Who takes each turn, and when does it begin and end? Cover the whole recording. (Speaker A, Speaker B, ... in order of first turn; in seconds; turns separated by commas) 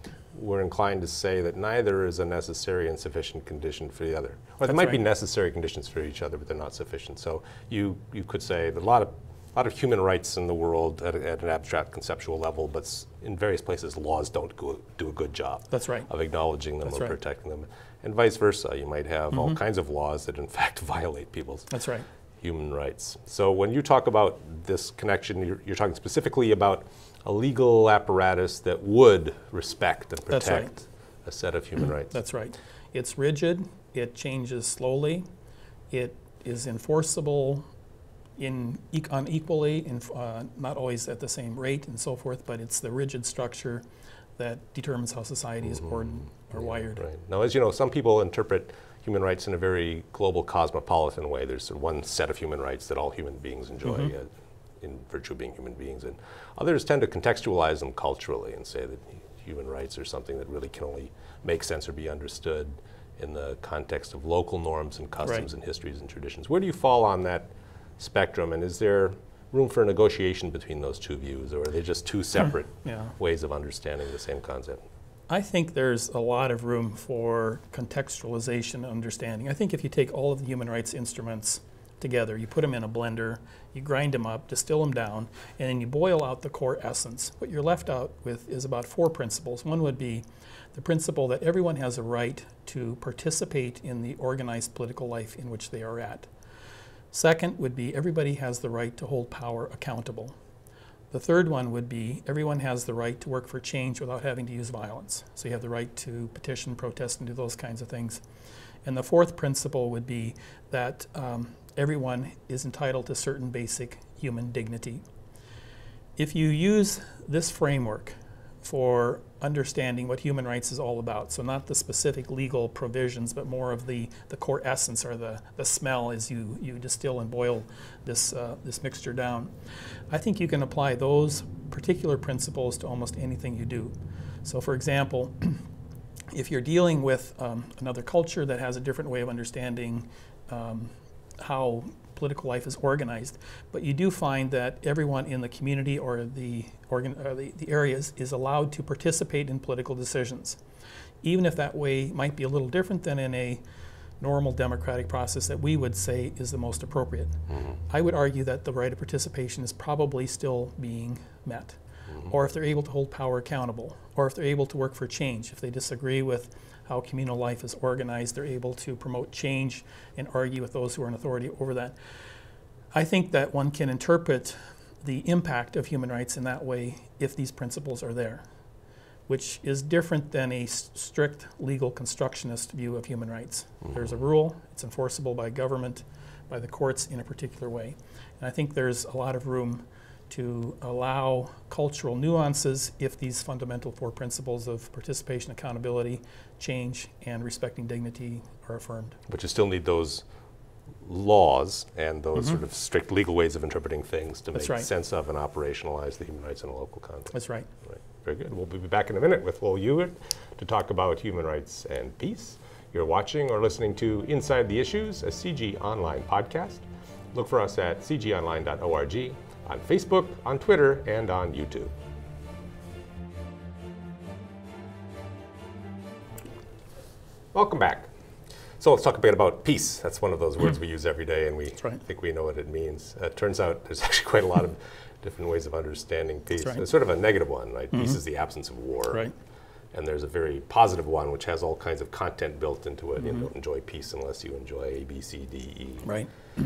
Speaker A: 0.3-21.7, Speaker B: 4.7-5.0, Speaker B: 15.7-16.1, Speaker B: 16.9-17.1, Speaker B: 19.3-19.6, Speaker B: 21.7-22.1, Speaker A: 22.4-32.2, Speaker B: 30.3-30.7, Speaker B: 32.1-35.2, Speaker B: 35.9-37.7, Speaker B: 38.4-43.8, Speaker B: 44.4-47.0, Speaker A: 45.8-74.8, Speaker B: 53.9-54.1, Speaker B: 72.8-73.1, Speaker B: 75.3-96.3, Speaker B: 97.1-100.3, Speaker B: 101.1-108.2, Speaker B: 108.8-115.0, Speaker B: 116.2-129.5, Speaker B: 130.1-133.9, Speaker B: 134.4-135.6, Speaker B: 136.3-150.6, Speaker B: 151.2-153.6, Speaker B: 154.2-171.9, Speaker B: 172.9-178.4, Speaker B: 179.3-199.2, Speaker A: 199.3-200.2, Speaker A: 201.0-207.3, Speaker B: 204.6-204.9, Speaker B: 207.3-207.7, Speaker A: 207.8-221.9, Speaker A: 227.5-228.1, Speaker A: 228.8-239.3, Speaker A: 239.9-246.1, Speaker B: 246.0-246.3